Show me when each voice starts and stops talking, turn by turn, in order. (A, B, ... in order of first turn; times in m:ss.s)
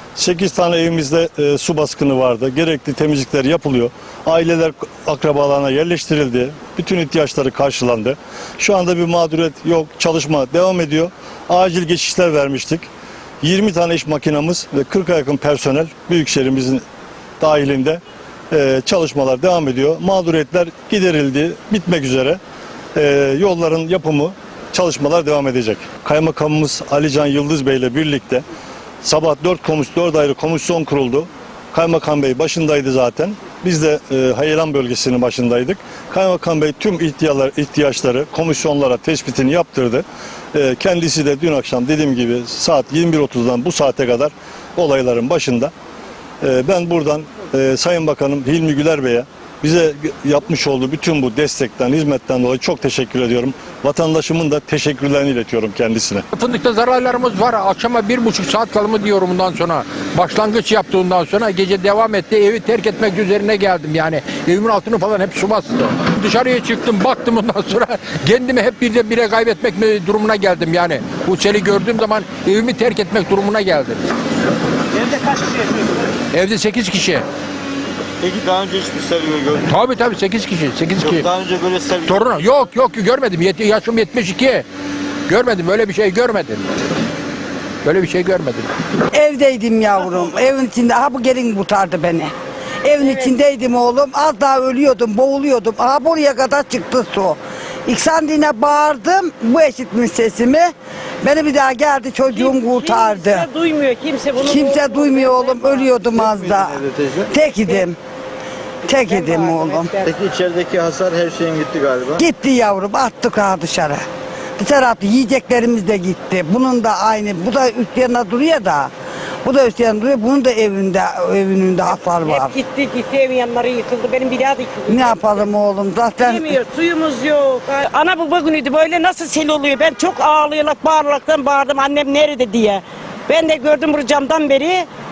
0:00.2-0:12.9 A
0:13.4-0:16.8 A
0:17.4-0:22.4 A
0:23.0-0:28.4 A
0:29.0-0:45.7 A
0:46.4-0:56.2 A
0:56.3-1:14.0 B
1:16.3-1:17.2 B
1:18.2-1:19.8 C
1:19.7-1:21.3 B
1:21.0-1:22.4 C
1:22.0-1:24.6 B
1:25.3-1:26.7 B
1:27.8-1:28.7 B
1:29.1-1:32.3 D
1:32.8-1:43.5 D
1:33.0-1:33.3 E
1:42.3-1:46.1 E
1:44.4-1:48.0 D
1:46.2-1:47.3 C
1:47.6-1:47.9 E
1:48.9-1:49.9 D
1:48.9-1:50.2 E
1:50.0-1:52.2 C
1:52.2-1:54.0 D
1:54.6-1:58.9 D
1:59.4-2:02.6 D
2:02.2-2:05.5 E
2:04.9-2:06.6 D
2:06.2-2:14.9 E